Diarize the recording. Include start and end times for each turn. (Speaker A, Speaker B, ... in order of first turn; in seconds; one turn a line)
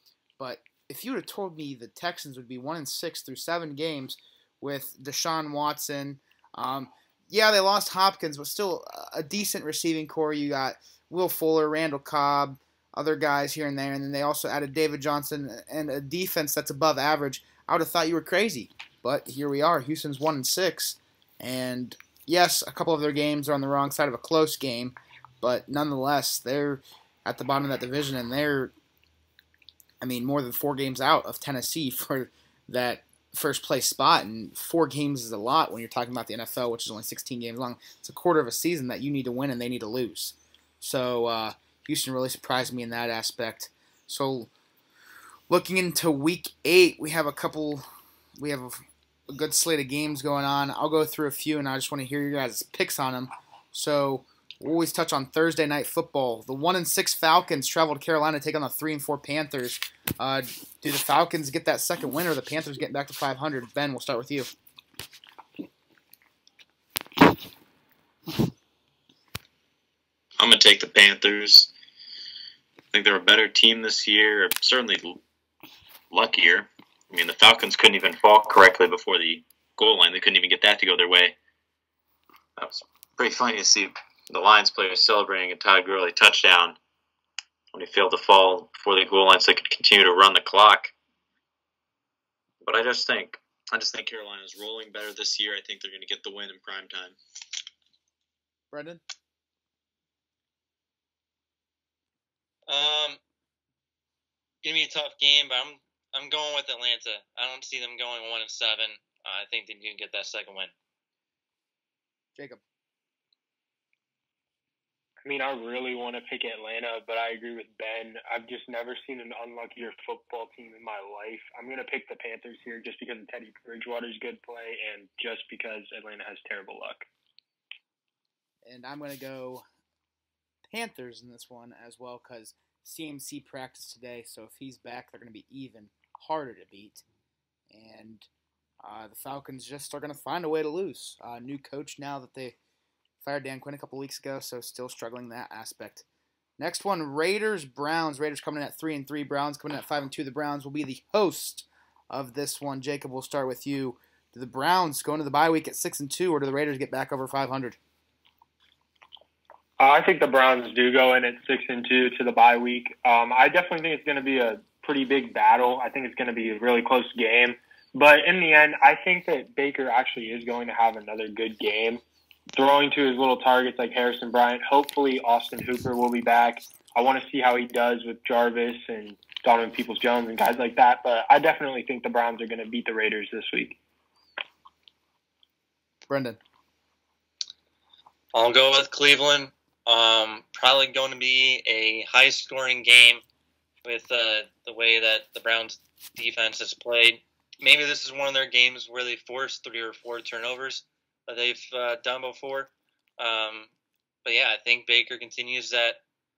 Speaker A: 0.4-28.7
Speaker A: 30.0-44.5
Speaker A: 45.5-47.9
Speaker A: 48.4-64.5
Speaker B: 70.4-71.7
Speaker B: 72.9-75.2
Speaker B: 76.1-81.4
Speaker B: 82.6-86.8
Speaker B: 87.7-90.9
Speaker B: 92.6-97.2
Speaker A: 98.7-99.0
Speaker C: 102.7-103.2
Speaker C: 104.6-110.7
Speaker A: 112.4-112.6
Speaker D: 115.2-127.1
Speaker A: 128.6-129.6
Speaker A: 130.7-137.1
Speaker A: 137.7-138.3
Speaker A: 138.8-142.6
Speaker A: 143.2-146.1
Speaker A: 146.6-157.8
Speaker D: 159.8-172.0
Speaker D: 172.5-183.8
Speaker A: 186.1-186.4
Speaker C: 188.3-193.2
Speaker C: 193.8-203.7
Speaker C: 204.2-206.0